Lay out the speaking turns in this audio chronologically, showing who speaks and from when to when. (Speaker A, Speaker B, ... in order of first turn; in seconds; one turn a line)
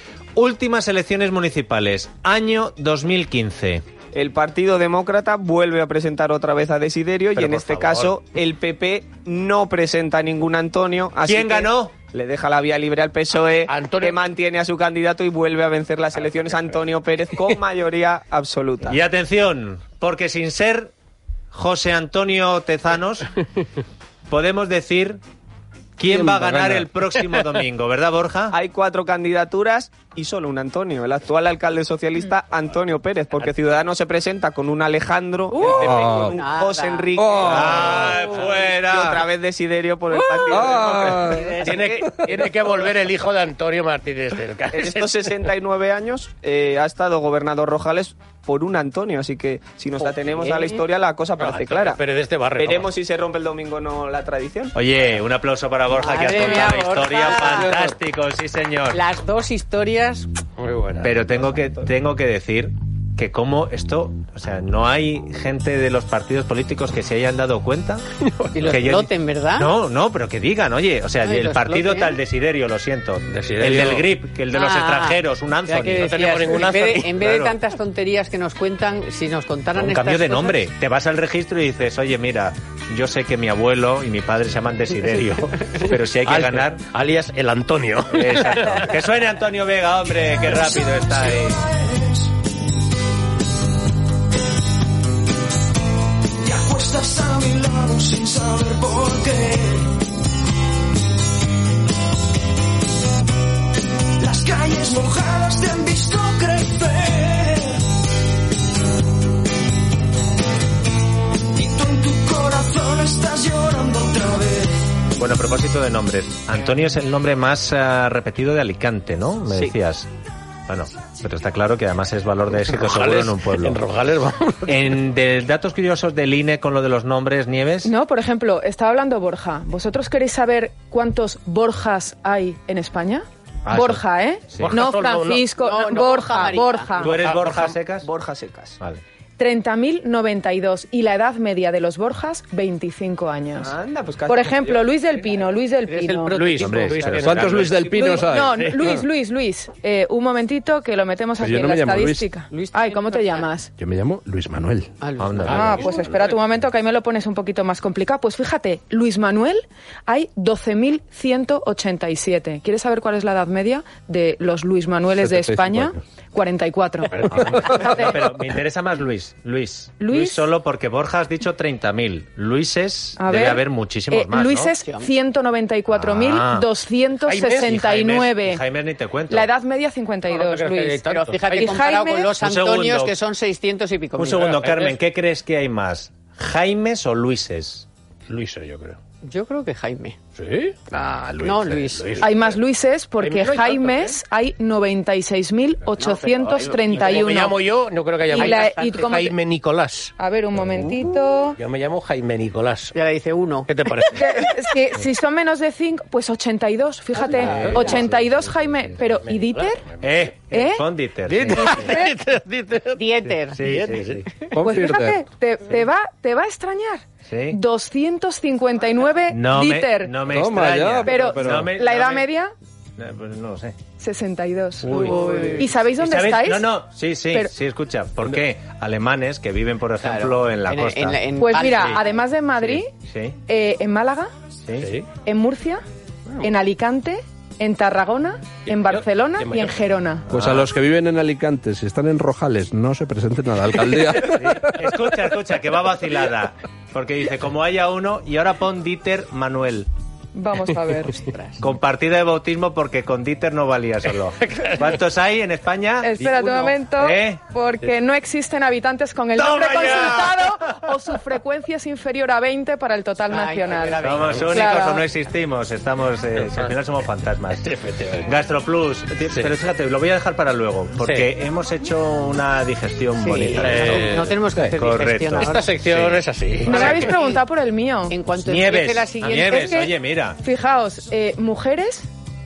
Speaker A: 0.4-3.8
Speaker B: 4.1-19.0
Speaker A: 7.4-8.1
Speaker A: 11.2-11.9
Speaker C: 13.7-14.2
Speaker A: 18.9-20.9
Speaker A: 21.5-23.3
Speaker A: 24.3-25.2
Speaker A: 26.0-28.6
Speaker D: 26.1-26.9
Speaker B: 28.5-42.6
Speaker E: 35.5-37.4
Speaker D: 35.7-36.4
Speaker D: 37.2-38.1
Speaker A: 37.4-39.2
Speaker D: 40.5-41.6
Speaker C: 41.6-45.2
Speaker B: 44.7-52.0
Speaker C: 51.4-52.9
Speaker B: 52.5-54.8
Speaker A: 54.7-59.0
Speaker E: 56.0-57.9
Speaker E: 58.9-60.3
Speaker C: 60.6-61.2
Speaker A: 61.0-68.0
Speaker C: 68.3-68.9
Speaker E: 68.5-69.7
Speaker A: 68.6-77.6
Speaker E: 71.2-72.2
Speaker C: 73.3-74.1
Speaker E: 74.5-80.6
Speaker C: 75.9-77.2
Speaker A: 79.8-86.8
Speaker C: 85.1-88.9
Speaker A: 88.1-91.7
Speaker F: 90.8-92.3
Speaker F: 96.4-100.0
Speaker F: 104.2-107.8
Speaker F: 111.5-115.0
Speaker A: 115.2-120.1
Speaker A: 120.7-123.8
Speaker C: 122.5-124.9
Speaker A: 124.7-127.9
Speaker G: 127.8-137.3
Speaker A: 133.7-134.8
Speaker C: 134.6-136.6
Speaker E: 135.6-137.0
Speaker A: 136.9-138.1
Speaker B: 137.2-138.8
Speaker G: 139.4-143.7
Speaker B: 143.6-144.9
Speaker G: 144.3-146.5
Speaker E: 145.9-147.2
Speaker C: 146.3-149.0
Speaker A: 146.6-147.8
Speaker D: 147.2-148.7
Speaker G: 147.9-153.7
Speaker D: 151.4-152.3
Speaker E: 152.5-153.5
Speaker D: 153.8-155.0
Speaker E: 155.0-155.9
Speaker A: 155.2-155.7
Speaker C: 155.5-156.4
Speaker G: 155.5-168.2
Speaker D: 165.2-166.0
Speaker A: 167.4-174.7
Speaker D: 167.4-167.8
Speaker G: 170.0-170.5
Speaker G: 173.2-178.6
Speaker E: 174.8-175.1
Speaker A: 175.9-176.7
Speaker C: 177.3-177.7
Speaker A: 177.6-179.5
Speaker G: 179.3-182.4
Speaker C: 180.2-181.9
Speaker E: 181.1-184.6
Speaker A: 182.4-183.2
Speaker A: 184.2-187.9
Speaker C: 184.4-185.0
Speaker C: 188.3-189.0
Speaker E: 189.2-190.2
Speaker C: 190.3-192.6
Speaker E: 191.4-192.3
Speaker G: 192.2-197.6
Speaker C: 193.2-194.2
Speaker E: 196.0-196.9
Speaker C: 196.4-200.1
Speaker G: 198.3-199.4
Speaker E: 198.3-199.2
Speaker G: 200.2-201.6
Speaker C: 201.6-202.9
Speaker E: 202.9-203.7
Speaker C: 203.7-204.6
Speaker G: 204.1-209.8
Speaker E: 207.3-208.1
Speaker C: 207.3-208.2
Speaker C: 209.2-210.2
Speaker A: 210.0-211.8
Speaker G: 210.5-210.8
Speaker C: 211.3-213.0
Speaker E: 211.6-212.1
Speaker E: 212.9-213.6
Speaker A: 213.3-214.3
Speaker C: 213.6-214.3
Speaker D: 214.5-215.2
Speaker G: 214.6-220.2
Speaker A: 217.3-217.6
Speaker A: 219.3-222.3
Speaker D: 220.3-221.8
Speaker G: 221.0-222.5
Speaker A: 223.0-223.8
Speaker G: 224.0-226.7
Speaker A: 224.9-225.2
Speaker C: 224.9-225.7
Speaker E: 225.0-225.6
Speaker A: 226.0-231.3
Speaker E: 230.0-232.2
Speaker G: 231.4-232.9
Speaker A: 233.0-233.4
Speaker G: 233.5-234.3
Speaker A: 234.6-234.9
Speaker C: 234.8-235.1
Speaker G: 235.2-235.8
Speaker G: 236.4-240.3
Speaker C: 238.7-239.8
Speaker D: 240.3-244.7
Speaker A: 240.3-240.7
Speaker A: 244.2-249.9
Speaker G: 250.3-251.3
Speaker E: 251.3-251.5
Speaker A: 251.6-256.1
Speaker C: 254.5-254.9
Speaker G: 256.0-265.1
Speaker C: 256.3-256.7
Speaker A: 257.0-257.4
Speaker A: 259.4-260.8
Speaker E: 263.3-264.5
Speaker A: 264.0-267.7
Speaker C: 264.1-264.5
Speaker C: 266.4-266.8
Speaker C: 267.6-268.3
Speaker A: 268.2-276.2
Speaker C: 271.0-271.3
Speaker E: 273.2-275.7
Speaker C: 273.6-274.8
Speaker C: 275.4-277.1
Speaker G: 276.6-278.2
Speaker E: 276.8-277.4
Speaker E: 278.1-279.9
Speaker A: 278.4-280.4
Speaker C: 279.2-279.6
Speaker G: 279.6-279.9
Speaker G: 280.4-282.1